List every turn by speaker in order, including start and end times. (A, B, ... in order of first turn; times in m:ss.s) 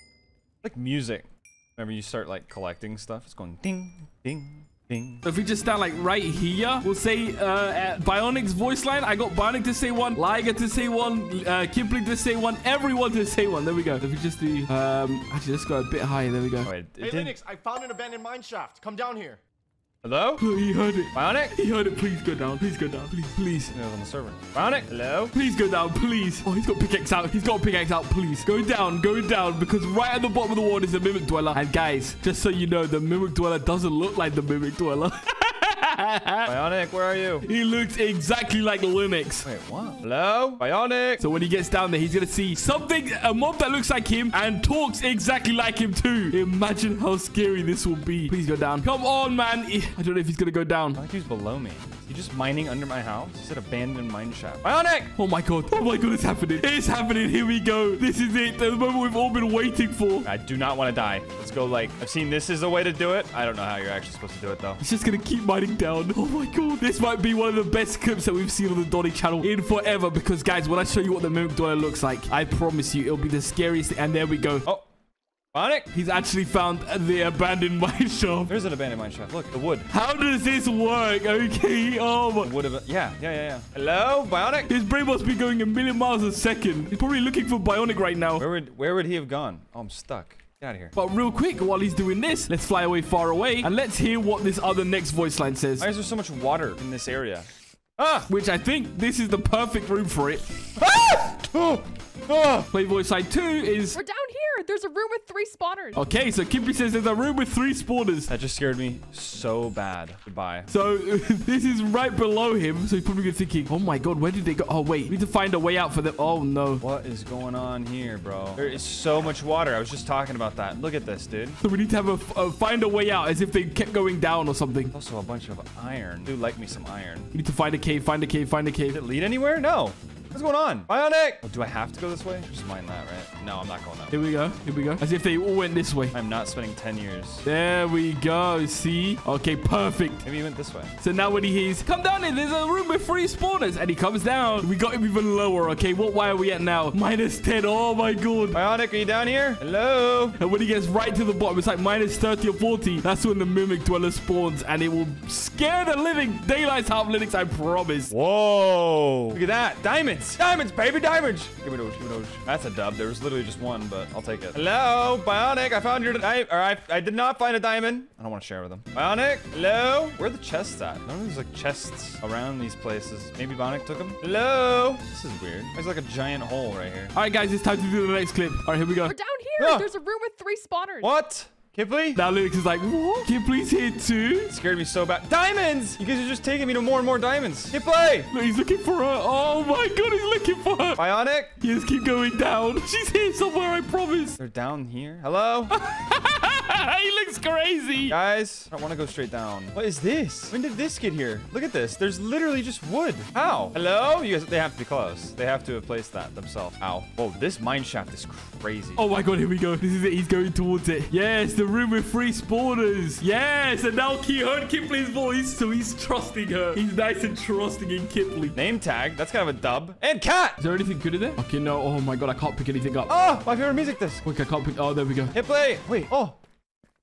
0:00.6-0:05.2 A
0:05.2-0:16.7 B
0:16.6-0:17.4 A
0:17.0-0:19.4 C
0:20.0-0:20.4 A
0:20.4-0:23.7 B
0:21.1-0:21.6 A
0:23.7-0:25.4 A
0:25.3-0:36.5 B
0:36.4-0:37.5 A
0:37.4-0:39.5 B
0:39.4-0:41.2 A
0:41.2-0:51.0 B
0:51.0-0:55.1 A
0:55.2-1:00.3 B
1:00.2-1:04.8 A
1:04.8-1:14.6 B
1:15.5-1:15.9 A
1:15.9-1:18.5 B
1:18.5-1:19.9 A
1:19.9-1:22.5 B
1:22.4-1:24.7 A
1:24.7-1:28.4 B
1:28.4-1:31.0 A
1:31.0-1:35.9 B
1:35.8-1:38.3 A
1:38.3-1:40.4 B
1:40.8-1:42.7 A
1:42.7-1:44.0 B
1:43.9-1:46.0 D
1:45.9-1:48.3 B
1:48.3-1:50.7 A
1:50.7-1:56.8 B
1:56.8-2:01.6 A
2:01.6-2:04.9 B
2:04.9-2:07.3 A
2:07.3-2:09.0 B
2:08.9-2:14.2 A
2:14.1-2:16.2 B
2:16.1-2:17.4 A
2:17.4-2:20.2 B
2:20.2-2:20.9 A
2:21.0-2:28.6 B
2:28.5-2:30.4 A
2:30.4-2:38.1 B
2:38.1-2:57.1 A
2:57.2-2:59.2 B
2:59.0-3:01.1 D
2:59.6-2:59.9 A
3:01.0-3:02.2 A
3:02.2-3:04.5 B
3:04.5-3:08.3 A
3:08.3-3:11.0 B
3:11.0-3:11.5 A
3:11.6-3:14.4 B
3:14.4-3:15.7 A
3:15.7-3:18.2 B
3:18.1-3:29.0 A
3:29.0-3:38.6 B
3:38.6-3:40.6 A
3:40.6-3:43.1 B
3:43.1-3:44.2 A
3:44.2-3:45.4 B
3:45.3-3:46.4 A